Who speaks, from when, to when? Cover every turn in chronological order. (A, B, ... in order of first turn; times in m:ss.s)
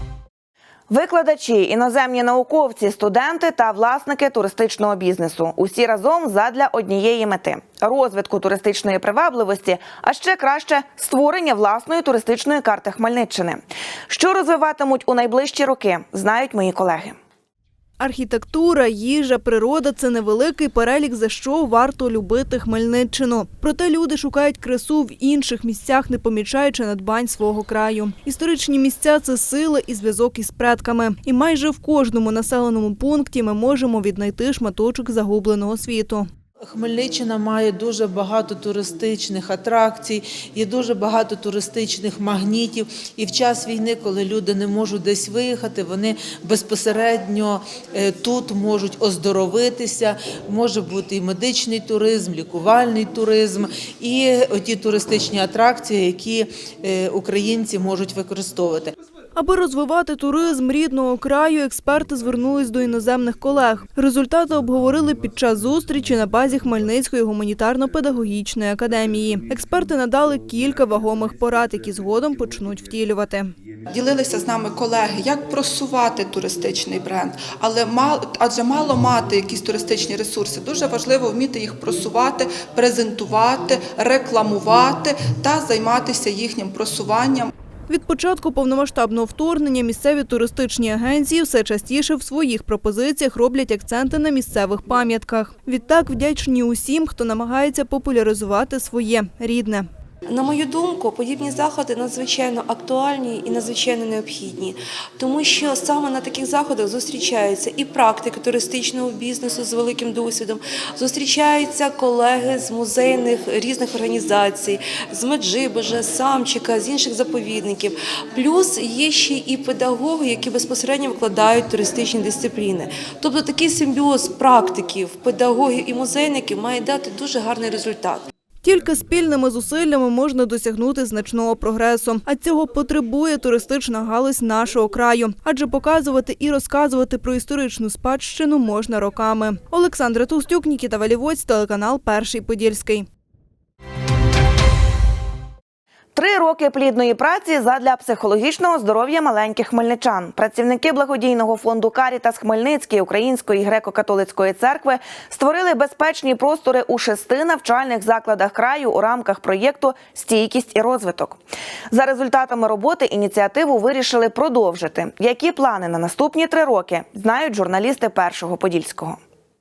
0:00.9-0:17.2 A
0:18.0-0:36.3 B
0:36.6-0:58.9 C
0:59.4-1:13.5 B
1:13.9-1:27.5 D
1:27.9-1:39.9 B
1:40.3-2:08.3 E
2:08.6-2:23.1 B
2:26.2-2:41.4 A
2:41.9-2:49.2 A